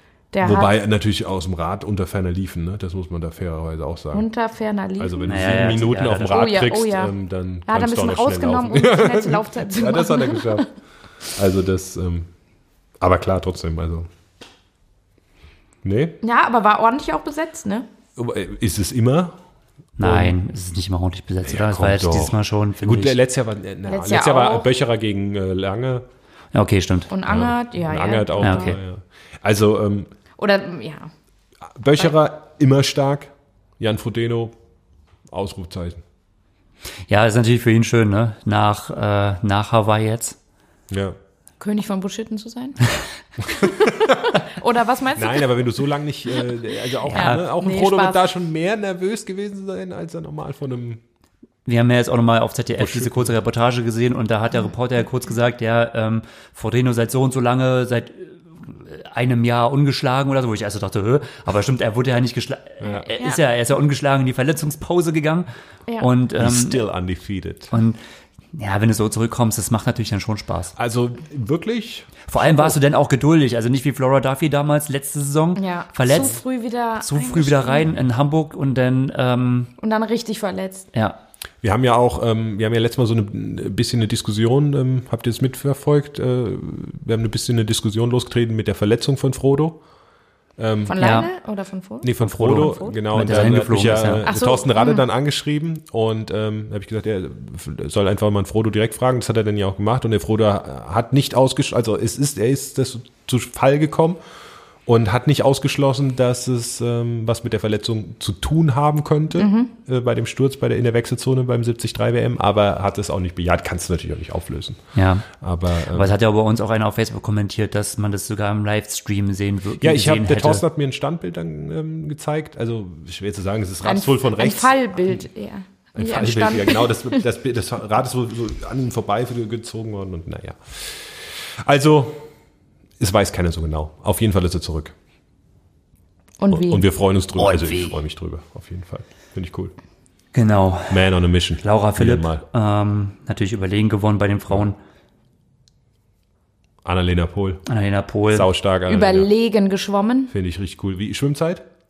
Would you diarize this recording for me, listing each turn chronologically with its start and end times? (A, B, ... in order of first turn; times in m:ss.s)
0:00.3-0:00.7 A
0:00.4-0:04.3 B
0:04.1-0:07.1 A
0:05.0-0:10.7 B
0:05.3-0:06.4 C
0:07.7-0:10.7 A
0:11.3-0:12.3 B
0:13.0-0:14.1 B
0:15.8-0:16.2 B
0:16.2-0:17.9 A
0:18.2-0:19.4 B
0:20.0-0:20.4 B
0:20.0-0:23.2 C
0:21.4-0:26.0 B
0:23.9-0:24.7 A
0:26.5-0:27.1 C
0:27.1-0:28.8 A
0:27.3-0:30.1 B
0:28.4-0:28.8 C
0:30.4-0:31.1 A
0:31.7-0:34.5 B
0:35.3-0:36.0 B
0:37.1-0:40.4 C
0:40.9-0:41.2 B
0:41.6-0:45.6 A
0:43.8-0:44.2 B
0:45.2-0:51.0 B
0:47.0-0:48.2 A
0:47.1-0:47.4 C
0:51.6-1:05.5 C
0:52.8-0:53.3 B
1:02.8-1:03.1 B
1:06.0-1:06.8 C
1:06.4-1:07.7 B
1:07.7-1:08.0 C
1:08.5-1:10.7 C
1:10.8-1:12.8 B
1:12.3-1:16.4 C
1:15.6-1:17.9 A
1:17.0-1:19.7 C
1:19.8-1:20.9 A
1:21.6-1:29.8 B
1:30.6-1:30.9 B
1:30.9-1:33.0 A
1:31.0-1:31.3 C
1:32.0-1:44.2 B
1:32.2-1:34.3 C
1:34.2-1:35.0 A
1:44.8-1:56.1 B
1:49.4-1:49.7 A
1:54.9-1:55.3 C
1:55.8-2:00.6 C
1:59.8-2:05.2 B
2:03.8-2:07.2 A
2:05.9-2:12.3 B
2:13.0-2:14.9 B
2:16.4-2:16.8 A
2:16.5-2:19.7 B
2:17.4-2:18.0 C
2:20.3-2:21.0 C
2:20.9-2:22.4 B
2:21.6-2:24.8 C
2:26.8-2:27.6 B
2:27.6-2:28.5 C
2:28.3-2:29.3 B
2:28.9-2:30.3 A
2:30.3-2:31.6 B